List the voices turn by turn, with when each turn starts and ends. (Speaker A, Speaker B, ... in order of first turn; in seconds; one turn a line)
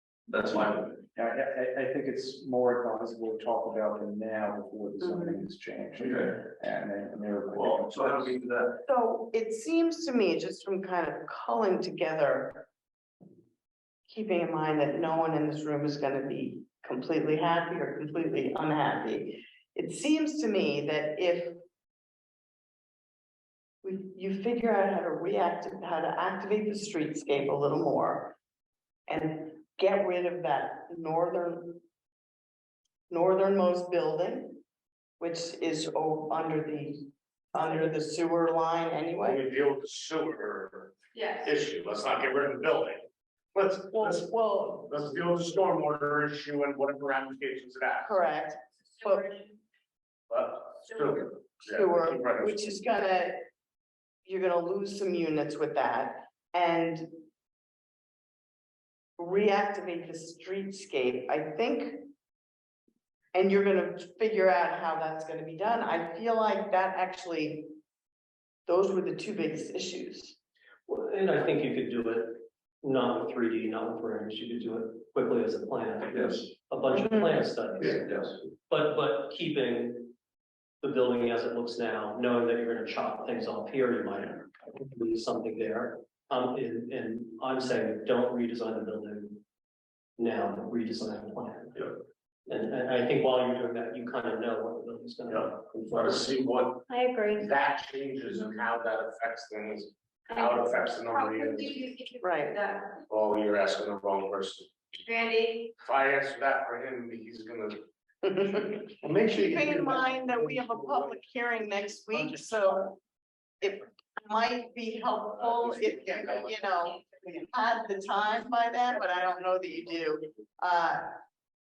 Speaker A: 0.3-8.5
Speaker B: 5.0-5.4
Speaker C: 7.5-8.6
Speaker B: 8.8-12.7
Speaker B: 14.1-21.6
Speaker B: 23.8-28.4
Speaker B: 29.1-31.8
Speaker B: 33.1-34.6
Speaker B: 35.2-39.4
Speaker D: 39.2-48.2
Speaker E: 41.1-41.5
Speaker B: 43.9-44.9
Speaker B: 48.0-49.3
Speaker D: 50.3-52.8
Speaker B: 51.6-53.4
Speaker B: 54.2-57.1
Speaker B: 59.2-62.1
Speaker B: 63.3-67.7
Speaker B: 68.7-70.3
Speaker F: 70.9-78.1
Speaker C: 76.1-76.4
Speaker B: 76.9-77.4
Speaker C: 77.8-78.3
Speaker F: 78.7-80.1
Speaker F: 80.8-89.4
Speaker F: 90.2-91.8
Speaker F: 92.5-95.6
Speaker D: 95.3-96.8
Speaker E: 96.9-97.5
Speaker D: 97.4-101.8
Speaker E: 100.3-102.9
Speaker B: 102.2-102.6
Speaker D: 103.1-104.7
Speaker E: 105.1-105.7
Speaker D: 105.8-107.8
Speaker B: 108.2-113.0
Speaker C: 109.6-110.7
Speaker B: 113.6-121.0
Speaker D: 115.4-116.5